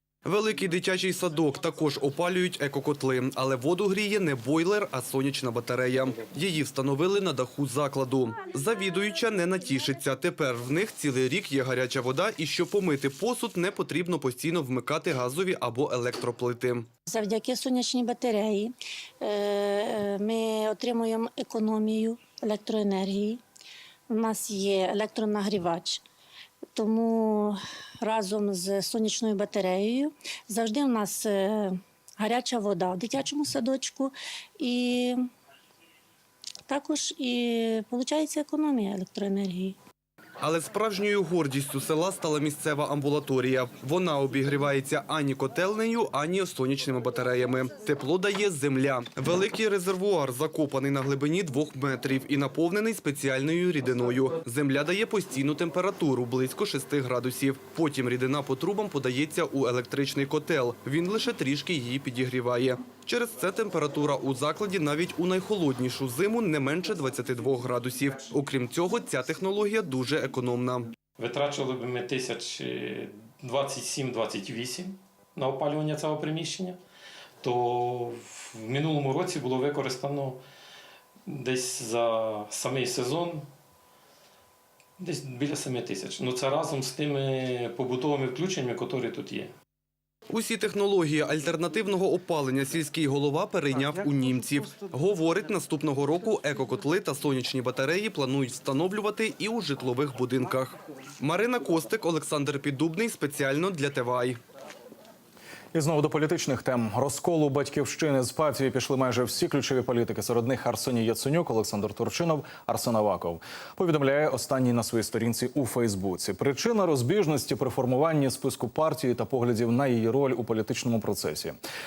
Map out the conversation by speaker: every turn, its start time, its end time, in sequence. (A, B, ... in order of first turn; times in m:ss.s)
0:00.2-0:16.9 A
0:17.1-0:23.4 B
0:24.1-0:26.0 B
0:26.7-0:35.2 B
0:36.7-0:39.8 B
0:40.4-1:10.9 A
1:11.2-1:16.8 C
1:17.4-1:20.4 C
1:21.2-1:23.4 C
1:25.0-1:29.5 C
1:30.3-1:44.4 A
1:45.7-2:01.6 D